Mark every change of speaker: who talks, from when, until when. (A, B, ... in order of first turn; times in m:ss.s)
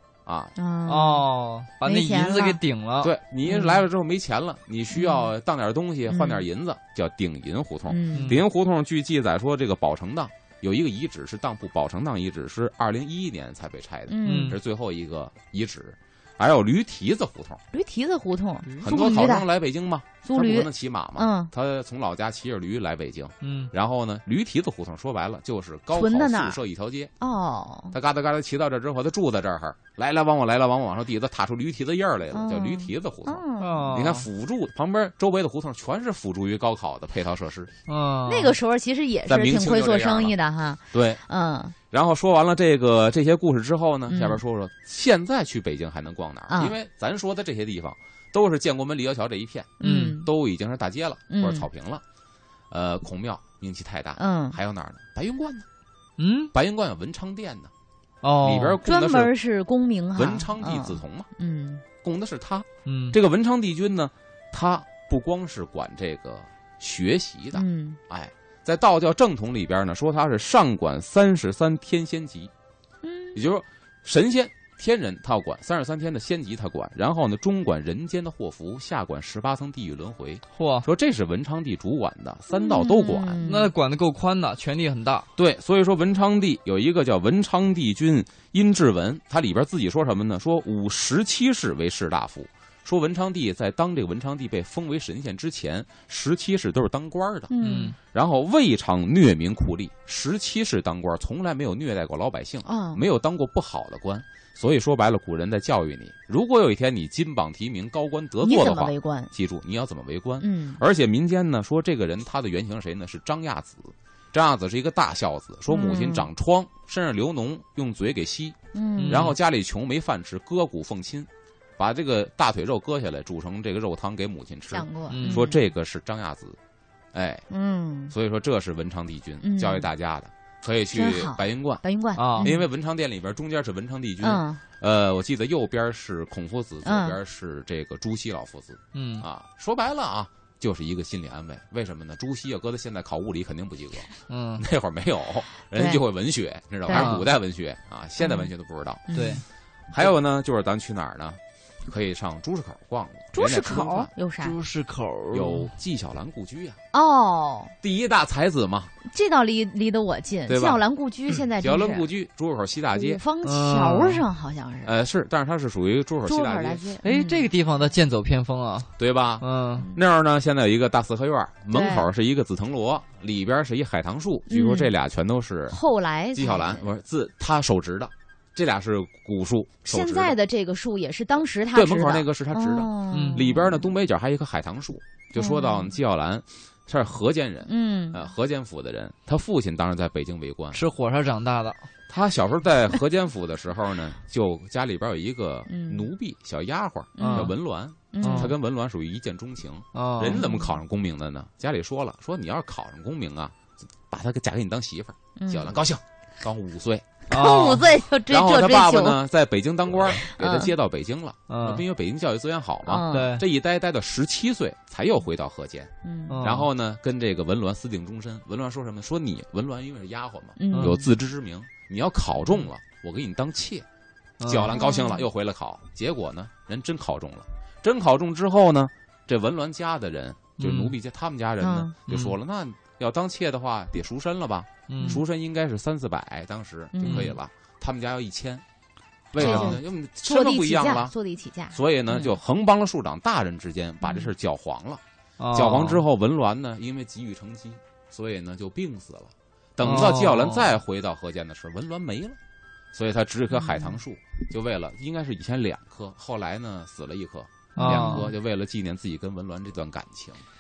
0:00.2-0:00.5 A
0:00.6-0:01.3 B
0:00.9-0:03.1 C
0:01.8-0:02.6 B
0:03.0-0:17.6 A
0:03.5-0:03.8 B
0:04.9-0:05.3 B
0:06.1-0:06.5 B
0:07.9-0:08.3 B
0:08.1-0:08.4 C
0:14.1-0:14.6 B
0:14.2-0:14.6 C
0:17.7-0:19.5 B
0:18.8-0:27.1 A
0:20.2-0:21.5 B
0:23.4-0:23.7 C
0:25.9-0:26.6 B
0:27.2-0:27.9 B
0:27.9-0:37.7 A
0:32.3-0:33.9 B
0:33.6-0:34.3 C
0:37.9-0:38.6 C
0:38.3-0:41.8 B
0:39.3-0:40.4 A
0:40.9-0:41.2 A
0:41.9-0:52.0 A
0:44.1-0:44.4 B
0:46.5-0:46.8 B
0:49.8-0:50.3 B
0:49.8-0:50.2 C
0:51.3-0:51.7 B
0:52.7-0:55.7 A
0:54.2-0:54.6 B
0:56.2-0:56.5 C
0:56.5-0:57.7 A
0:58.2-0:58.8 C
0:58.4-0:59.3 A
0:58.8-1:01.8 B
1:00.2-1:01.3 A
1:02.0-1:12.5 A
1:02.9-1:03.2 C
1:07.5-1:08.0 B
1:13.0-1:13.4 B
1:13.4-1:23.4 A
1:20.6-1:20.9 C
1:22.5-1:23.7 B
1:23.4-1:25.3 C
1:25.4-1:58.6 A
1:37.5-1:38.0 B
1:37.6-1:38.0 C
1:42.6-1:43.0 B
1:48.4-1:49.3 B
1:50.4-1:50.8 B
1:55.7-1:56.3 B
1:58.7-1:59.3 B
1:59.0-1:59.4 C
1:59.1-2:06.6 A
2:04.7-2:05.6 B
2:05.1-2:05.5 C
2:07.1-2:07.4 A
2:07.5-2:08.1 B
2:08.1-2:11.8 A
2:09.4-2:09.9 B
2:10.9-2:12.7 B
2:12.2-2:12.5 C
2:12.4-2:29.2 A
2:14.2-2:14.6 B
2:16.8-2:17.2 B
2:18.9-2:19.2 C
2:24.3-2:24.6 C
2:25.8-2:26.0 B
2:26.9-2:27.1 B
2:26.9-2:27.3 C
2:28.2-2:28.5 B
2:29.1-2:29.4 B
2:29.1-2:29.4 C
2:29.9-2:34.1 A
2:33.3-2:34.6 B
2:34.4-2:35.7 C
2:35.3-2:36.8 A
2:36.9-2:37.7 B
2:37.8-2:38.9 A
2:39.1-2:42.1 B
2:40.5-2:40.8 A
2:41.5-2:43.2 A
2:43.0-2:44.9 B
2:43.4-2:44.2 C
2:44.8-2:47.0 A
2:46.3-2:47.5 B
2:47.0-2:49.8 C
2:49.0-2:55.8 A
2:51.7-2:52.1 B
2:54.5-2:54.9 B
2:55.7-2:56.9 B
2:56.3-3:00.4 A
2:59.9-3:03.8 B
3:01.7-3:10.8 A
3:03.1-3:03.5 C
3:05.4-3:05.9 B
3:07.7-3:08.2 B
3:10.7-3:11.8 C
3:12.1-3:23.6 A
3:15.7-3:16.0 B
3:17.2-3:17.5 B
3:17.2-3:17.5 C
3:18.1-3:18.5 B
3:18.2-3:18.5 C
3:20.0-3:20.4 C
3:20.3-3:20.8 B
3:24.1-3:27.2 A
3:25.4-3:25.7 B
3:27.3-3:29.2 B
3:27.3-3:27.9 C
3:28.3-3:35.9 A
3:30.2-3:30.7 B
3:31.5-3:31.8 C
3:32.9-3:33.3 B
3:33.1-3:33.4 C
3:36.0-3:36.4 B
3:36.3-3:36.7 C
3:36.4-3:43.9 A
3:40.6-3:41.0 B
3:40.7-3:41.0 C
3:44.4-3:44.8 C
3:44.4-3:58.6 A
3:44.7-3:45.2 B
3:50.6-3:51.0 C
3:51.6-3:52.0 B
3:52.1-3:52.3 C
3:54.9-3:55.2 C
3:56.9-3:57.4 B
3:57.1-3:57.4 C
3:59.3-4:01.1 A
3:59.4-3:59.8 C
3:59.4-4:02.3 B
4:01.7-4:05.0 A
4:04.0-4:04.3 B
4:05.4-4:06.0 C
4:05.5-4:12.4 A
4:09.8-4:10.8 C
4:12.9-4:20.4 A
4:13.5-4:14.0 B
4:17.8-4:18.3 C
4:17.8-4:18.3 B